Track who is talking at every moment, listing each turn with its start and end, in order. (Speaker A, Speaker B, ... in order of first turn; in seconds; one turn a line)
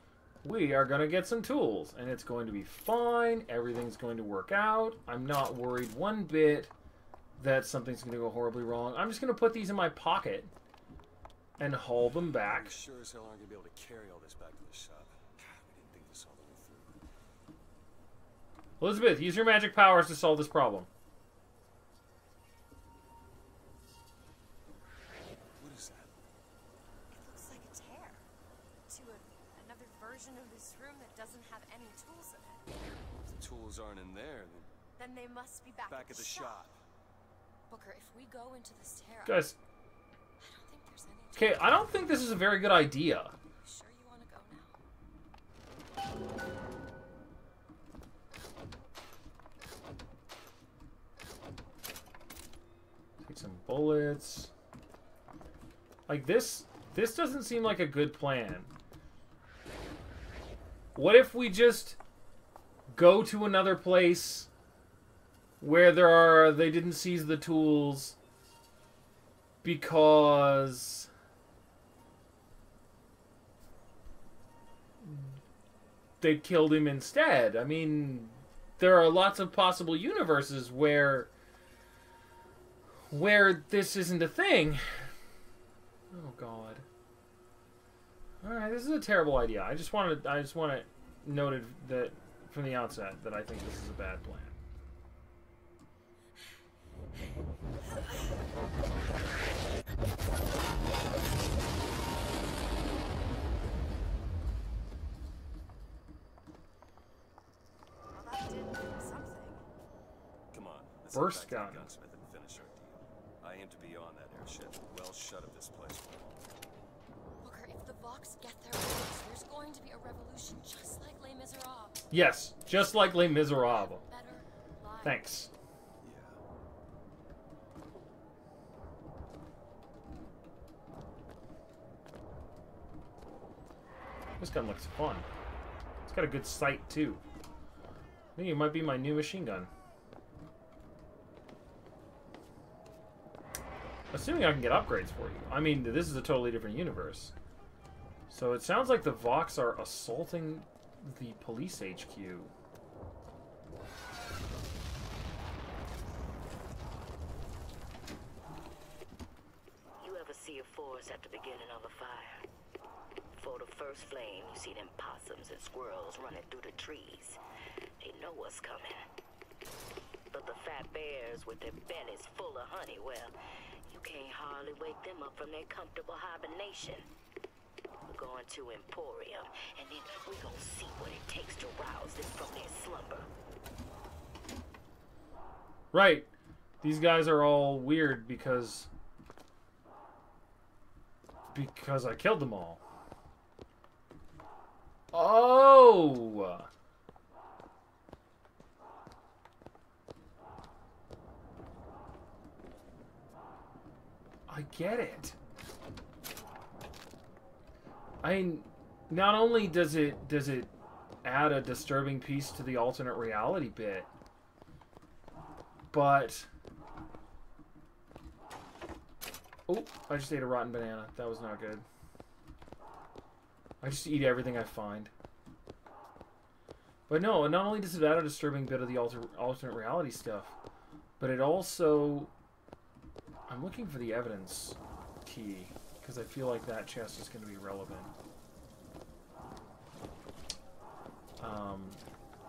Speaker A: 0.4-6.7
Speaker A: 7.4-10.5
Speaker A: 11.6-12.8
Speaker B: 12.2-17.0
Speaker A: 18.8-20.9
Speaker B: 25.6-26.1
Speaker C: 27.1-28.3
Speaker C: 28.9-32.6
Speaker B: 33.2-34.7
Speaker C: 35.0-36.6
Speaker B: 35.9-36.8
Speaker C: 37.7-39.5
Speaker A: 39.2-39.5
Speaker C: 40.4-42.0
Speaker A: 41.4-43.4
Speaker C: 43.6-44.8
Speaker A: 53.2-54.5
Speaker A: 56.1-58.7
Speaker A: 61.0-62.0
Speaker A: 62.9-64.5
Speaker A: 65.6-68.2
Speaker A: 69.6-71.1
Speaker A: 75.0-75.4
Speaker A: 76.2-81.3
Speaker A: 83.1-85.1
Speaker A: 86.1-86.8
Speaker A: 88.4-94.6
Speaker C: 108.1-109.6
Speaker B: 110.5-116.4
Speaker A: 111.1-111.9
Speaker C: 117.4-122.0
Speaker A: 122.1-124.0
Speaker C: 122.8-125.5
Speaker A: 125.0-125.5
Speaker B: 126.0-126.4
Speaker A: 134.4-135.3
Speaker A: 136.1-137.2
Speaker A: 138.4-139.7
Speaker A: 144.1-147.3
Speaker A: 148.3-152.5
Speaker D: 160.0-162.4
Speaker D: 163.4-167.4
Speaker D: 168.0-169.1
Speaker D: 170.3-173.3
Speaker D: 173.8-177.1
Speaker D: 178.1-183.3
Speaker A: 185.9-186.3
Speaker A: 186.8-188.9
Speaker A: 191.5-192.8
Speaker A: 195.1-196.7
Speaker A: 204.5-205.4
Speaker A: 208.2-210.7
Speaker A: 211.2-214.1
Speaker A: 215.9-216.5
Speaker A: 219.7-221.8
Speaker A: 223.8-225.1
Speaker A: 227.1-230.6
Speaker A: 231.2-232.3
Speaker A: 233.5-238.1
Speaker A: 241.4-242.0